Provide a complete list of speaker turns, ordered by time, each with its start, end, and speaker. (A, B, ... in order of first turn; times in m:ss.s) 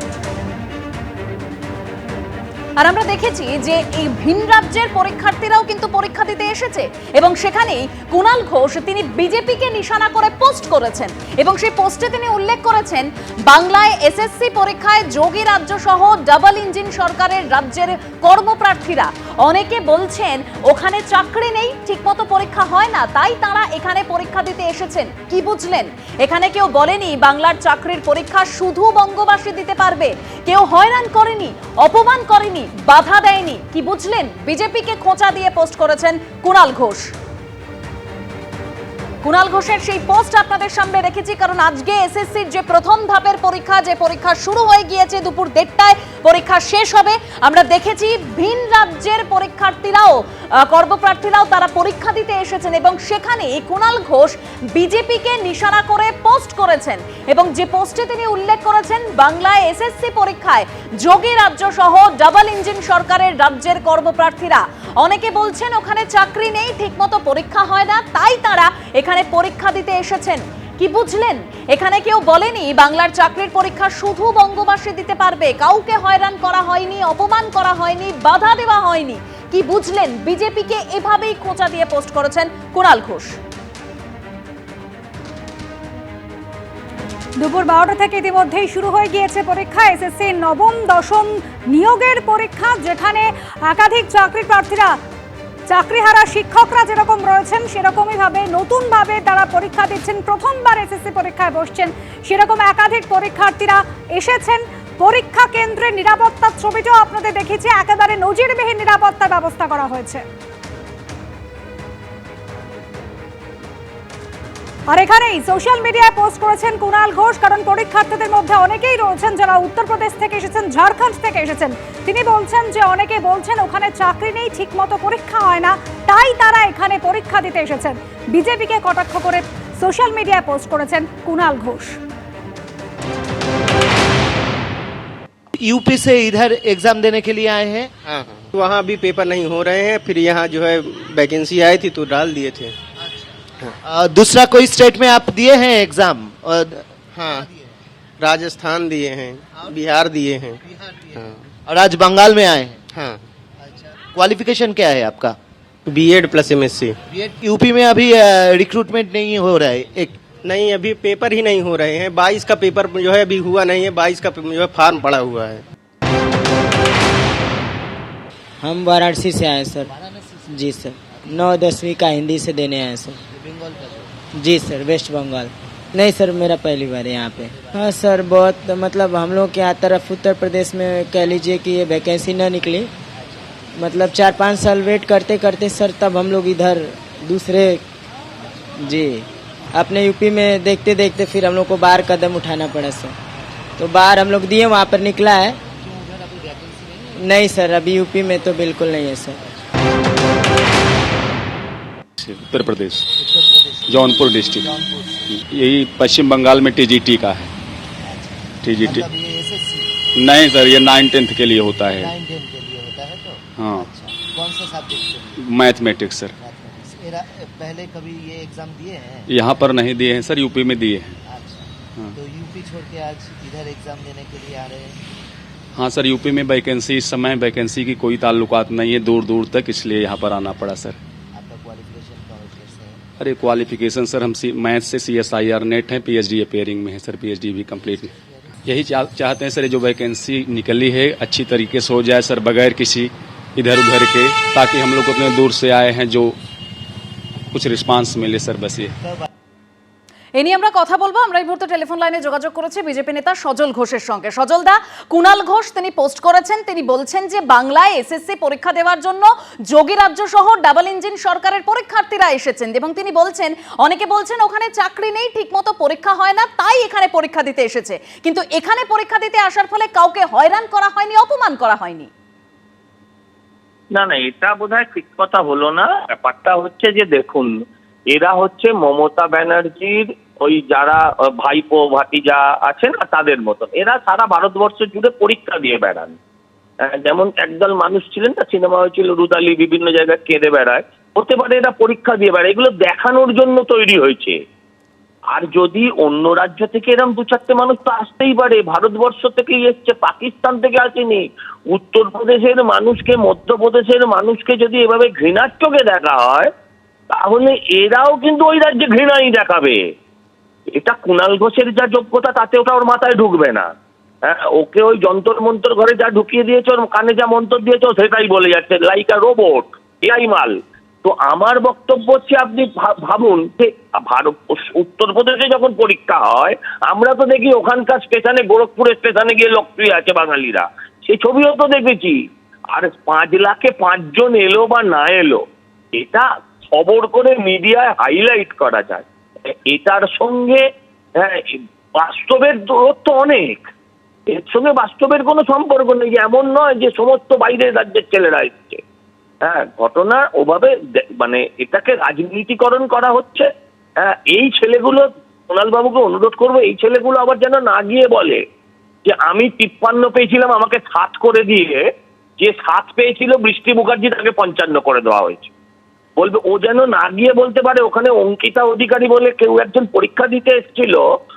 0:02.8-0:37.1 A
0:39.2-1:23.4 A
1:27.4-1:35.0 B
1:35.7-1:50.2 B
1:54.9-2:12.0 B
2:15.6-2:17.9 C
2:18.1-2:22.8 D
2:23.8-2:27.4 C
2:27.2-2:27.5 D
2:28.2-2:30.6 D
2:31.2-2:31.4 D
2:31.7-2:32.8 C
2:32.9-2:33.2 D
2:34.1-2:35.4 C
2:35.9-2:37.0 D
2:37.1-2:40.2 C
2:40.4-2:45.6 D
2:48.6-2:49.9 E
2:49.9-2:50.5 F
2:50.5-2:53.2 E
2:53.3-2:54.1 F
2:54.4-3:02.9 E
3:03.2-3:03.6 F
3:03.8-3:07.8 E
3:08.8-3:13.2 E
3:13.8-3:15.6 E
3:15.8-3:17.1 F
3:17.2-3:19.4 E
3:22.2-3:23.1 G
3:23.2-3:25.3 F
3:23.9-3:27.5 G
3:28.0-3:29.9 F
3:28.6-3:29.1 G
3:30.1-3:32.1 G
3:32.0-3:35.4 F
3:33.6-3:33.9 G
3:35.4-3:36.3 G
3:36.4-3:39.3 F
3:39.3-3:41.2 G
3:41.3-3:45.0 F
3:45.8-3:51.0 G
3:51.3-3:53.0 F
3:53.2-4:06.4 G
3:57.8-3:58.3 F
4:07.5-4:09.0 G
4:10.4-4:32.1 A
4:34.0-4:37.5 H
4:38.1-4:46.2 H
4:46.8-4:54.4 H
4:55.3-5:06.5 H
5:07.2-5:09.8 H
5:10.7-5:13.7 H
5:14.3-5:32.2 H
5:32.7-5:35.4 H
5:36.0-5:40.6 H
5:41.2-5:43.7 H
5:44.3-5:48.8 H
5:49.4-5:53.5 H
5:54.0-5:58.4 H
5:59.0-6:01.8 H
6:02.4-6:05.5 H
6:06.2-6:11.0 H